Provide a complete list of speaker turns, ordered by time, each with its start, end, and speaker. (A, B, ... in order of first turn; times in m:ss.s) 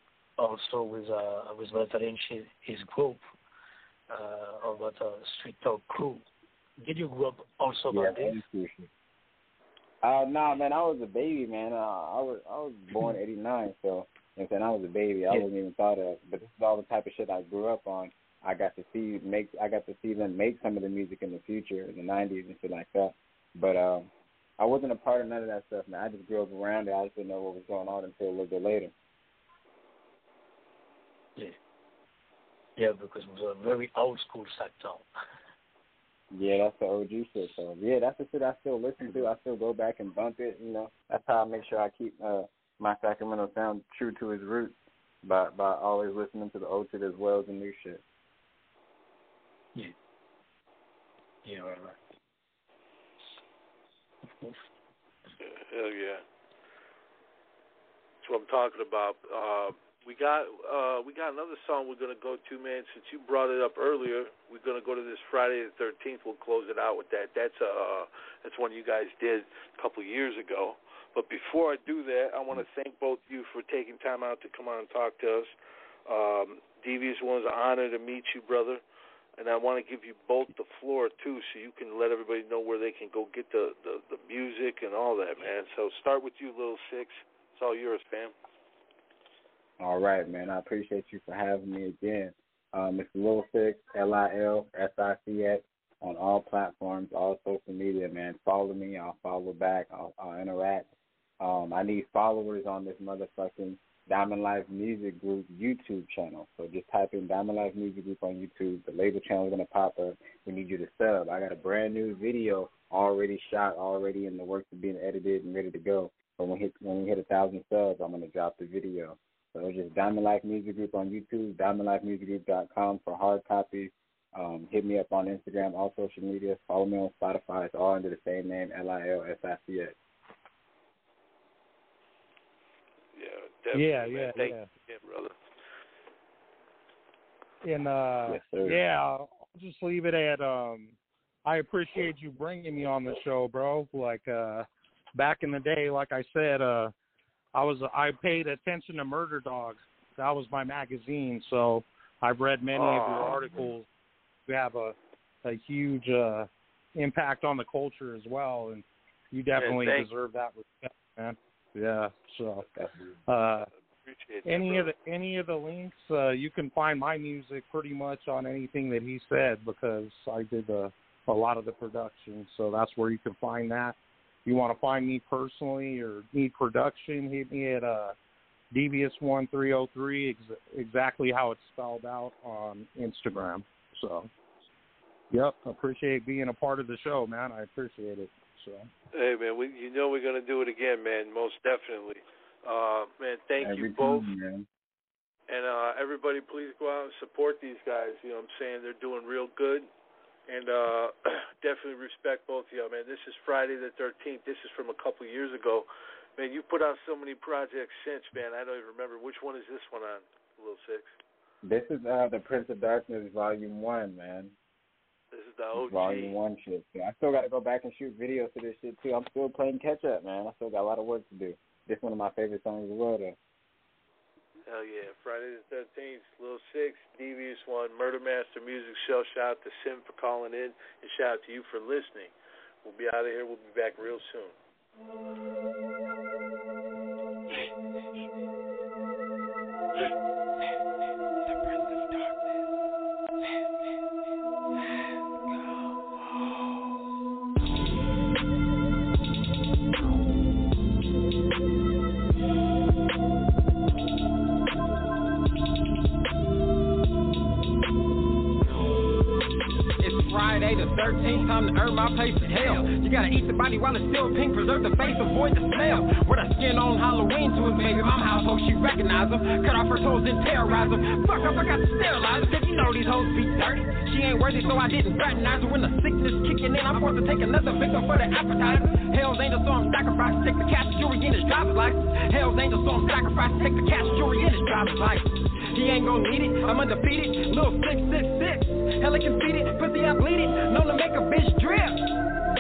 0:00.4-0:03.2 A
0:04.1-0:06.2 A
0:06.8-0:08.4 A
0:07.9-0:08.9 B
0:10.0-0:28.9 B
0:32.8-0:35.1 A
0:36.3-0:48.0 B
0:51.4-0:52.0 A
0:55.4-0:56.2 C
0:58.2-1:15.5 C
1:16.1-1:18.8 C
1:19.4-1:28.3 C
1:29.8-1:40.9 B
1:41.4-2:10.0 B
2:13.2-2:15.4 C
2:13.7-2:14.7 D
2:17.6-2:26.9 D
2:18.3-2:18.8 B
2:27.6-2:33.9 D
2:32.8-2:33.7 C
2:34.5-2:42.6 D
2:39.6-2:40.1 C
2:42.8-2:43.1 B
2:43.3-2:43.7 D
2:43.6-2:44.9 C
2:44.4-2:58.2 D
2:58.7-3:04.3 D
3:05.3-3:08.9 D
3:09.1-3:14.3 C
3:13.6-3:14.7 B
3:15.5-3:19.9 C
3:20.5-3:31.1 C
3:31.6-3:34.5 B
3:35.3-3:36.4 C
3:35.7-3:43.4 B
3:44.7-3:54.6 C
4:20.0-4:52.1 E